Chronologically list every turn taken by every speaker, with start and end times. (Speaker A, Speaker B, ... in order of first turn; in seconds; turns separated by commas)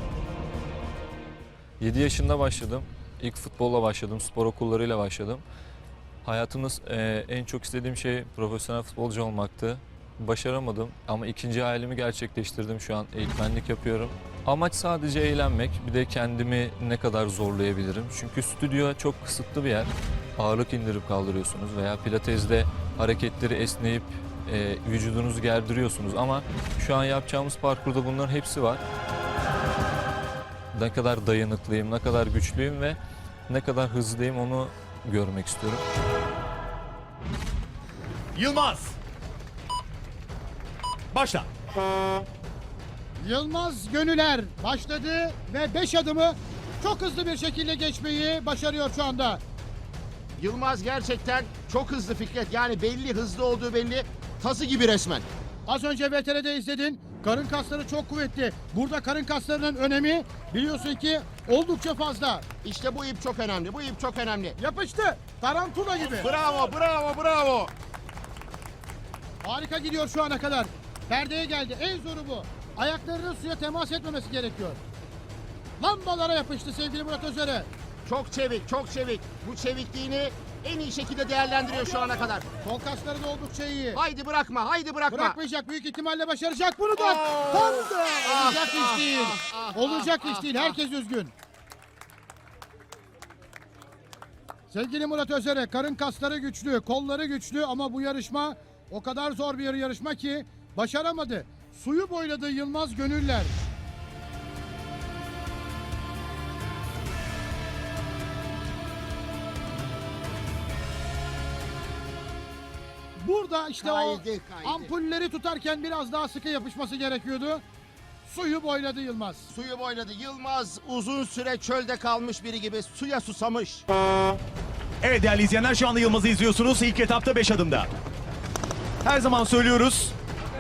Speaker A: 1.8-5.4, Speaker A: 6.2-28.8, Speaker A: 30.7-33.0, Speaker A: 33.5-35.8, Speaker B: 38.3-39.0, Speaker B: 41.1-41.5, Speaker C: 43.2-49.4, Speaker D: 50.4-55.3, Speaker C: 55.7-62.5, Speaker D: 62.6-64.6, Speaker C: 64.6-66.3, Speaker D: 66.0-67.7, Speaker C: 69.4-74.8, Speaker C: 75.8-77.7, Speaker D: 78.0-82.5, Speaker C: 82.6-84.0, Speaker D: 83.9-85.4, Speaker C: 85.1-91.3, Speaker D: 87.0-90.7, Speaker C: 94.7-103.5, Speaker C: 113.2-117.6, Speaker D: 113.8-114.9, Speaker C: 118.2-119.5, Speaker D: 119.5-123.8, Speaker B: 125.0-127.9, Speaker B: 129.0-130.1